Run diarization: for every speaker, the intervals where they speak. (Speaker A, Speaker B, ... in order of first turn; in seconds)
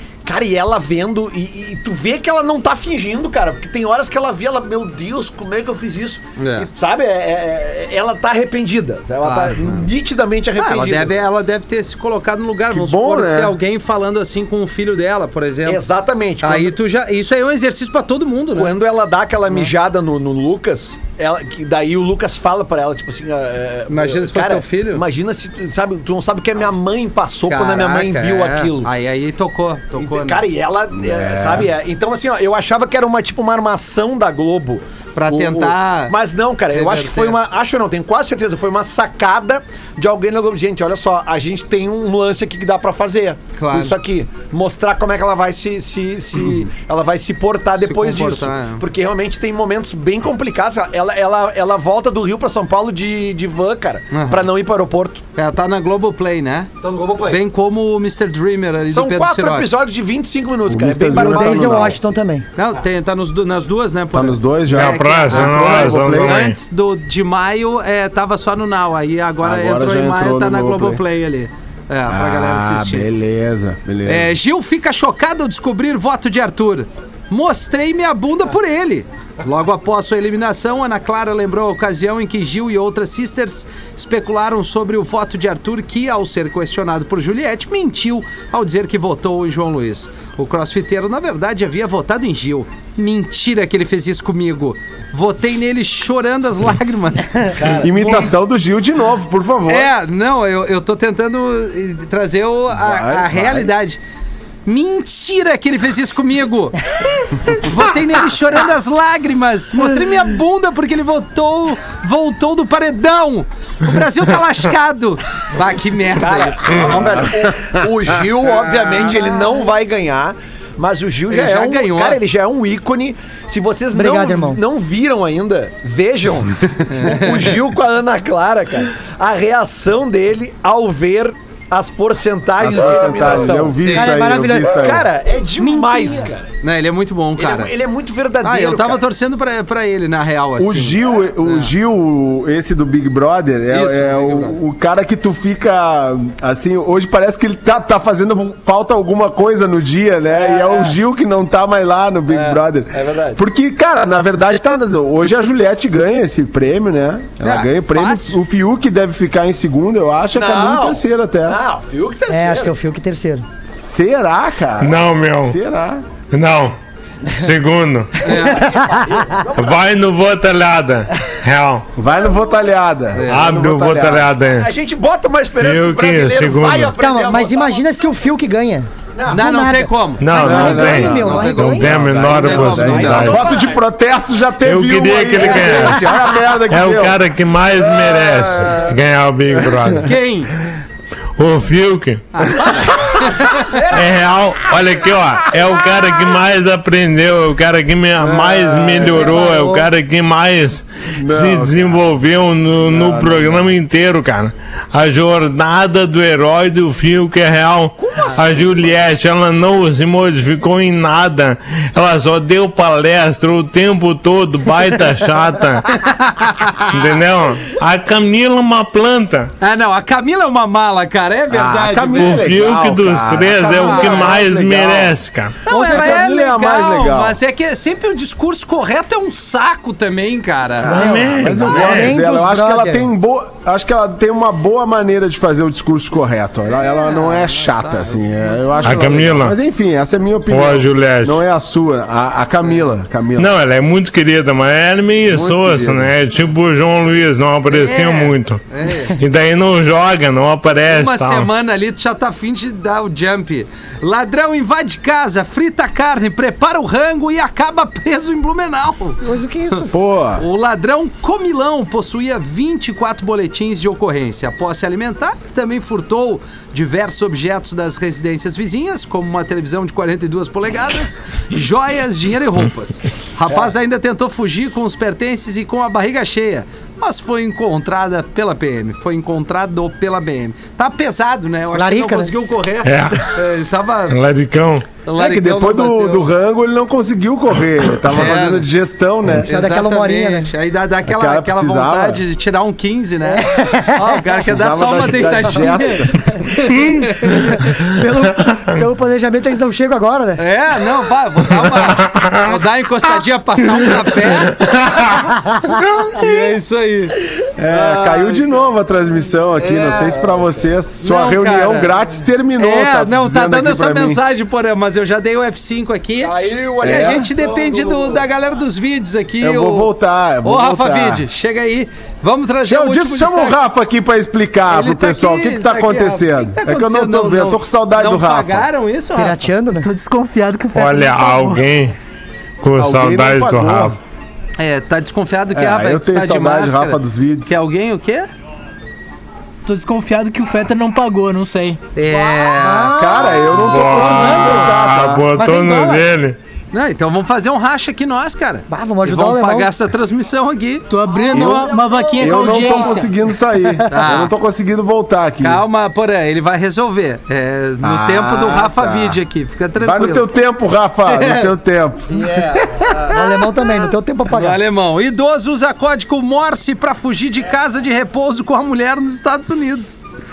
Speaker A: 0.2-11.1, 15.6-16.7, 18.5-28.9, 30.0-55.2, 56.8-57.4, 58.9-62.0, 97.5-98.2, 116.1-133.9, 134.7-136.4, 137.4-139.0, 150.3-150.9, 152.3-153.4, 160.3-162.7, 168.3-169.8, 174.5-177.8, 179.1-179.5, 182.7-183.8, 310.1-310.5, 316.2-318.2, 351.7-352.3
Speaker B: 6.4-6.7, 9.2-9.9, 10.6-15.8, 16.4-18.7, 23.9-25.0, 27.5-30.4, 35.1-36.1, 36.7-37.4, 43.6-43.9, 47.8-48.8, 54.1-54.4, 55.4-56.7, 57.2-59.7, 62.5-73.1, 74.0-98.3, 99.7-104.0, 104.7-106.8, 107.4-116.9, 121.3-122.2, 126.9-127.5, 133.8-134.2, 136.6-137.7, 138.4-141.7, 143.7-144.6, 157.4-158.4, 168.2-168.7, 173.1-173.4, 179.3-183.4, 190.0-190.5, 192.4-193.7, 208.0-208.5, 215.9-216.9, 219.6-222.5, 223.7-224.3, 225.7-230.9, 236.8-239.2, 247.7-249.2, 250.9-259.2, 260.4-284.2, 285.0-286.3, 288.1-288.7, 289.4-297.7, 300.4-305.1, 305.9-308.6, 309.6-310.2, 311.0-311.9, 312.6-319.9, 320.4-323.6, 324.7-329.5, 334.6-338.3, 341.9-343.2, 346.7-350.9, 353.9-354.3, 355.4-360.3, 361.1-361.5, 362.1-370.0
Speaker C: 12.7-13.6, 30.9-31.7, 60.7-62.0, 64.1-66.4, 69.4-71.0, 72.1-74.3, 97.8-99.9, 102.7-103.7, 116.9-117.8, 132.6-135.1, 140.6-161.6, 163.7-166.0, 171.9-174.3, 180.4-187.2, 187.8-188.9, 189.5-190.0, 198.2-199.5, 201.1-202.0, 202.8-203.7, 221.5-227.4, 230.8-243.5, 245.2-246.1, 259.9-260.4, 285.1-289.5, 291.0-292.2, 294.4-296.2, 307.6-314.2, 316.8-317.3, 319.4-321.2, 322.6-328.7, 332.8-334.0, 335.5-337.6, 342.9-345.3, 351.3-355.6, 357.8-359.2, 359.8-362.8
Speaker D: 61.1-62.4, 123.9-124.6, 133.9-134.8, 135.6-136.3, 162.3-163.4, 168.2-169.4, 177.0-181.9, 199.0-199.9, 225.7-226.2, 230.9-233.1, 259.2-259.9, 281.7-282.3, 289.4-290.5, 293.2-294.4, 296.3-300.4, 329.1-329.9, 342.5-346.1, 348.7-349.7, 353.6-353.9, 363.0-364.6
Speaker E: 64.7-66.6, 164.8-165.6, 166.3-166.8, 167.3-168.2, 169.6-171.9, 173.3-174.7, 175.6-176.9, 180.2-183.4, 184.6-190.1, 191.4-193.0, 193.7-216.0, 216.8-219.5, 222.2-225.6, 230.9-232.2, 238.8-239.6, 240.5-241.4, 243.4-248.6, 249.2-251.5, 282.8-283.4, 284.1-284.9, 302.0-302.4, 304.7-304.9, 330.7-331.9, 332.6-334.0, 343.6-346.4
Speaker F: 329.8-331.7, 339.6-341.8, 350.9-353.1